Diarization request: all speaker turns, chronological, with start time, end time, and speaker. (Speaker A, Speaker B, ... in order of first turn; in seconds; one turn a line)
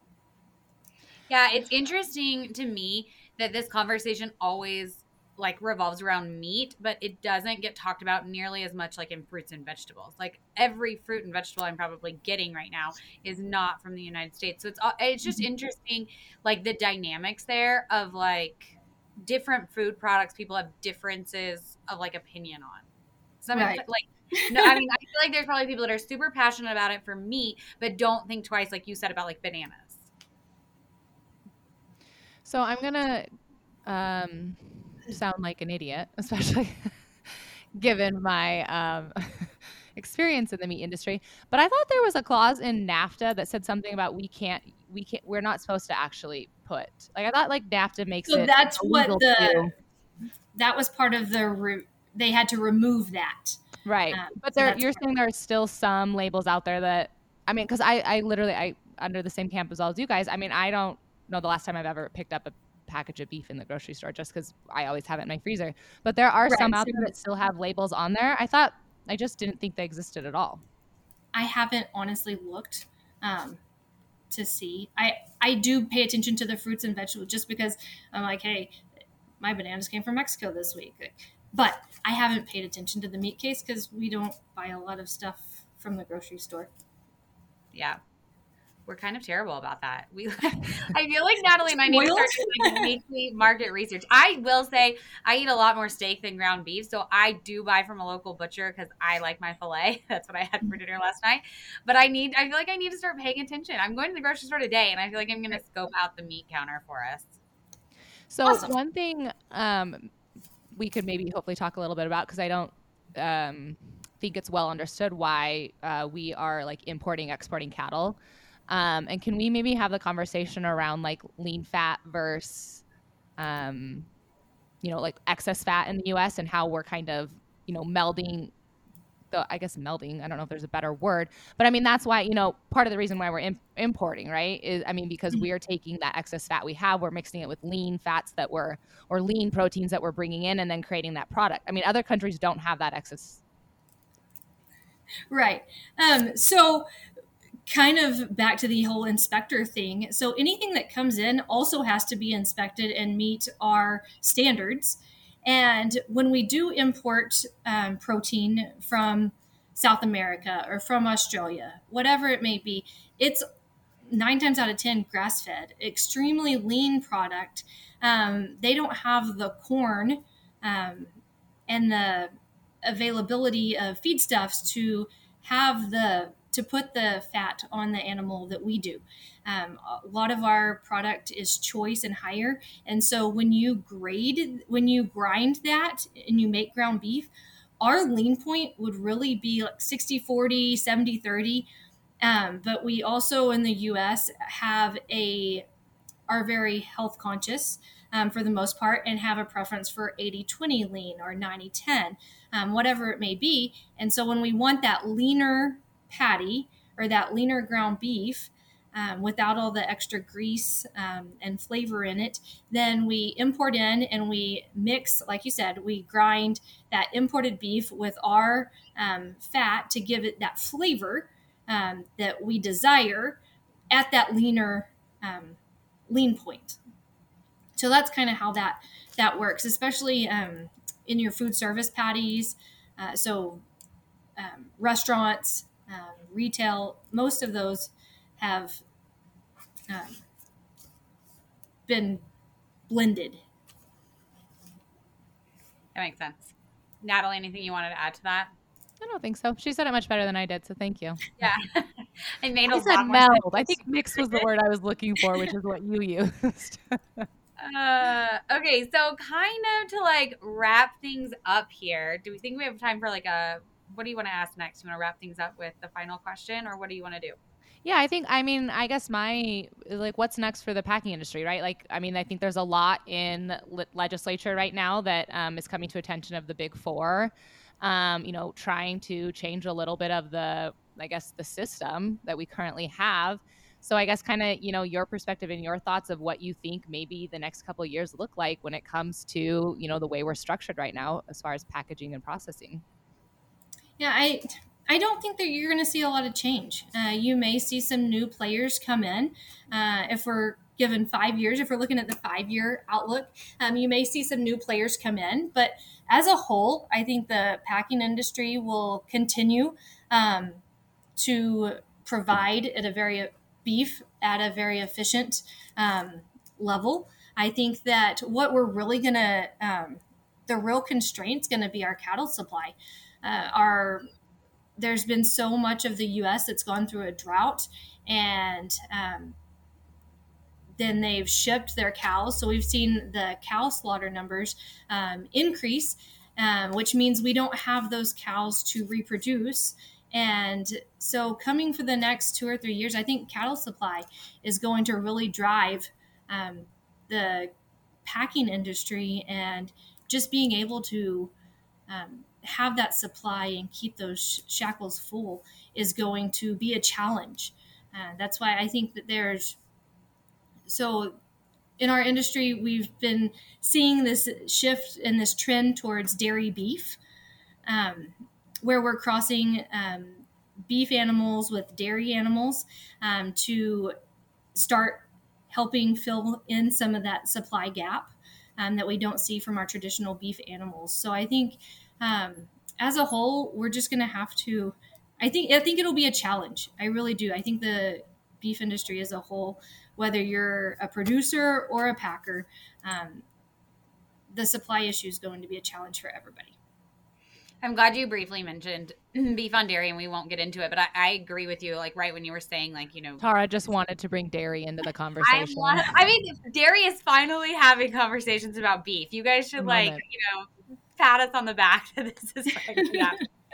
Speaker A: 1.3-22.9
Speaker A: 23.4-30.0
Speaker B: 23.5-24.7
Speaker C: 32.4-33.2
Speaker C: 33.9-49.7
Speaker B: 48.3-49.7
Speaker B: 50.5-53.6
Speaker C: 53.8-70.6
Speaker B: 54.1-55.0
Speaker B: 66.5-67.1
Speaker B: 71.3-73.6
Speaker B: 74.3-78.8
Speaker B: 79.4-86.7
Speaker A: 87.7-88.0
Speaker A: 88.8-107.3
Speaker B: 91.8-92.9
Speaker C: 108.3-110.1
Speaker B: 108.4-108.7
Speaker C: 110.7-118.2
Speaker C: 118.7-122.8
Speaker C: 123.4-124.1
Speaker C: 124.8-128.5
Speaker C: 129.3-143.4
Speaker B: 145.3-146.8
Speaker B: 147.7-163.4
Speaker B: 164.1-171.1
Speaker B: 171.7-172.3
Speaker B: 172.8-187.3
Speaker B: 187.8-191.7
Speaker B: 192.2-195.7
Speaker B: 196.3-223.4
Speaker B: 223.9-225.6
Speaker B: 226.1-226.8
Speaker B: 227.8-233.6
Speaker B: 234.4-238.8
Speaker B: 239.9-240.2
Speaker B: 241.9-242.2
Speaker B: 242.9-243.4
Speaker A: 245.9-248.5
Speaker C: 249.0-251.4
Speaker A: 251.4-254.4
Speaker C: 252.7-257.3
Speaker A: 257.6-267.4
Speaker C: 267.8-292.8
Speaker B: 294.0-310.6
Speaker B: 311.1-324.0
Speaker B: 324.8-329.4
Speaker B: 330.8-347.5
Speaker B: 348.0-351.3
Speaker B: 351.9-359.6
Speaker B: 360.7-361.2
Speaker B: 361.8-367.0
Speaker B: 367.7-373.9
Speaker B: 374.5-393.2
Speaker B: 394.3-396.6
Speaker A: 397.6-403.2
Speaker C: 403.2-406.0
Speaker A: 405.2-413.2
Speaker C: 409.6-410.0